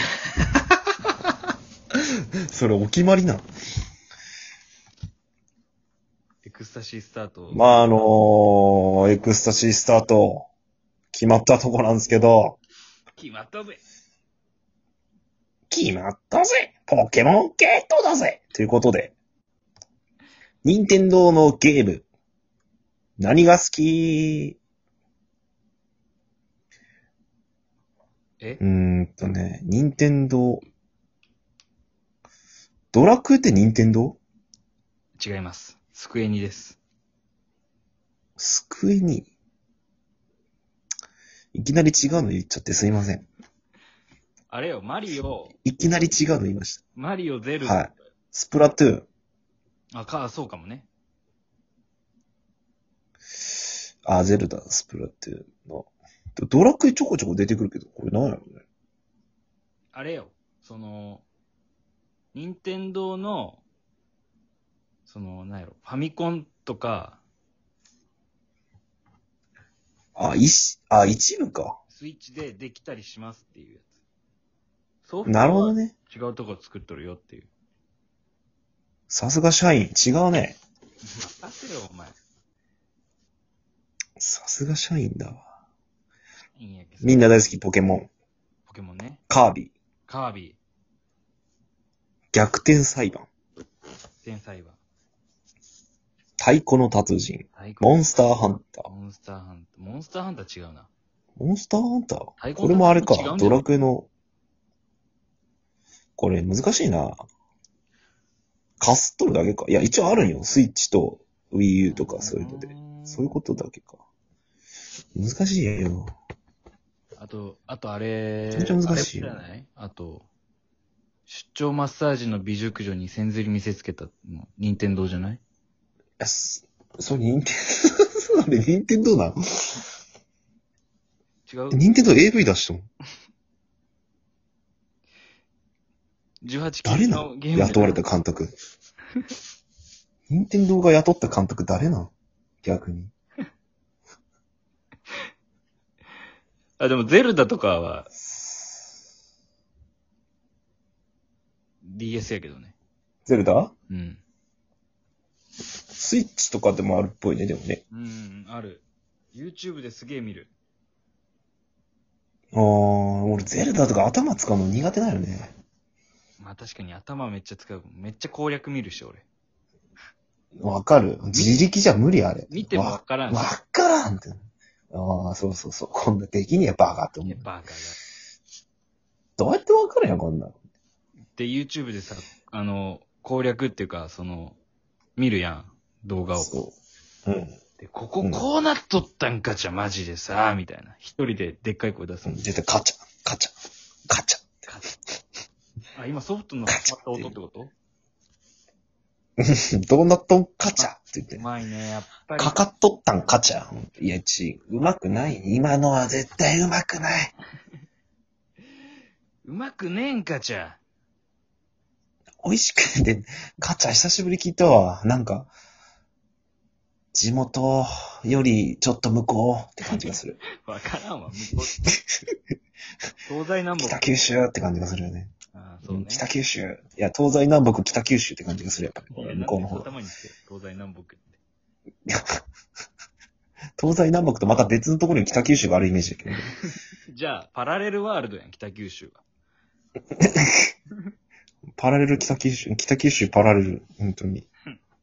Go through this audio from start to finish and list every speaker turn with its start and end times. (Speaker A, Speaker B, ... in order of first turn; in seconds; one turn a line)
Speaker A: 2.5-3.4
Speaker B: 6.4-7.6
Speaker A: 7.5-10.5
Speaker A: 11.1-12.6
Speaker B: 13.2-13.8
Speaker A: 15.7-19.1
Speaker A: 20.6-22.1
Speaker A: 23.2-24.6
Speaker A: 28.6-30.6
Speaker A: 32.9-34.2
Speaker B: 35.2-36.8
Speaker A: 38.4-39.3
Speaker A: 41.5-43.3
Speaker B: 44.5-45.5
Speaker A: 45.6-46.8
Speaker B: 47.0-47.9
Speaker A: 47.6-49.1
Speaker B: 49.9-50.9
Speaker A: 54.0-58.6
Speaker B: 59.9-61.2
Speaker B: 62.3-63.6
Speaker B: 65.1-67.2
Speaker A: 70.2-71.8
Speaker B: 71.9-74.0
Speaker B: 75.0-77.5
Speaker A: 75.3-75.9
Speaker A: 79.1-80.6
Speaker B: 81.1-82.2
Speaker A: 84.2-85.5
Speaker B: 86.6-87.5
Speaker A: 87.0-88.1
Speaker B: 88.7-89.2
Speaker A: 89.3-89.7
Speaker B: 90.1-90.6
Speaker A: 92.3-93.3
Speaker B: 94.2-94.8
Speaker A: 96.4-98.9
Speaker B: 97.5-98.0
Speaker B: 98.8-100.9
Speaker A: 101.4-104.1
Speaker B: 102.4-103.6
Speaker A: 106.2-107.2
Speaker A: 108.8-114.0
Speaker B: 111.8-113.3
Speaker A: 115.2-116.1
Speaker B: 117.2-120.3
Speaker A: 118.5-119.4
Speaker B: 121.3-125.4
Speaker A: 126.2-129.7
Speaker B: 131.5-132.1
Speaker A: 131.7-132.9
Speaker B: 136.4-138.0
Speaker A: 136.8-138.5
Speaker A: 140.3-142.1
Speaker A: 142.6-143.1
Speaker B: 146.8-148.1
Speaker A: 148.2-148.8
Speaker B: 151.8-152.7
Speaker A: 153.3-153.7
Speaker B: 153.9-154.2
Speaker A: 155.9-157.8
Speaker B: 157.9-160.5
Speaker A: 162.5-165.5
Speaker B: 166.4-169.2
Speaker A: 170.6-177.5
Speaker B: 171.3-171.6
Speaker B: 172.5-173.5
Speaker B: 177.2-178.0
Speaker A: 179.4-180.5
Speaker B: 181.4-184.6
Speaker B: 185.2-186.5
Speaker A: 186.4-186.8
Speaker A: 187.3-187.6
Speaker B: 187.8-192.4
Speaker A: 192.3-193.5
Speaker A: 194.1-194.7
Speaker B: 195.9-197.7
Speaker A: 196.7-197.4
Speaker A: 199.4-201.4
Speaker B: 200.8-202.6
Speaker A: 202.4-207.3
Speaker B: 209.4-210.8
Speaker A: 212.4-215.5
Speaker A: 217.1-220.4
Speaker B: 220.6-221.7
Speaker B: 223.3-224.1
Speaker A: 223.8-225.3
Speaker B: 225.5-226.3
Speaker A: 225.9-229.9
Speaker B: 229.1-231.4
Speaker A: 233.8-236.5
Speaker B: 236.6-239.2
Speaker A: 240.2-240.5
Speaker A: 241.8-244.5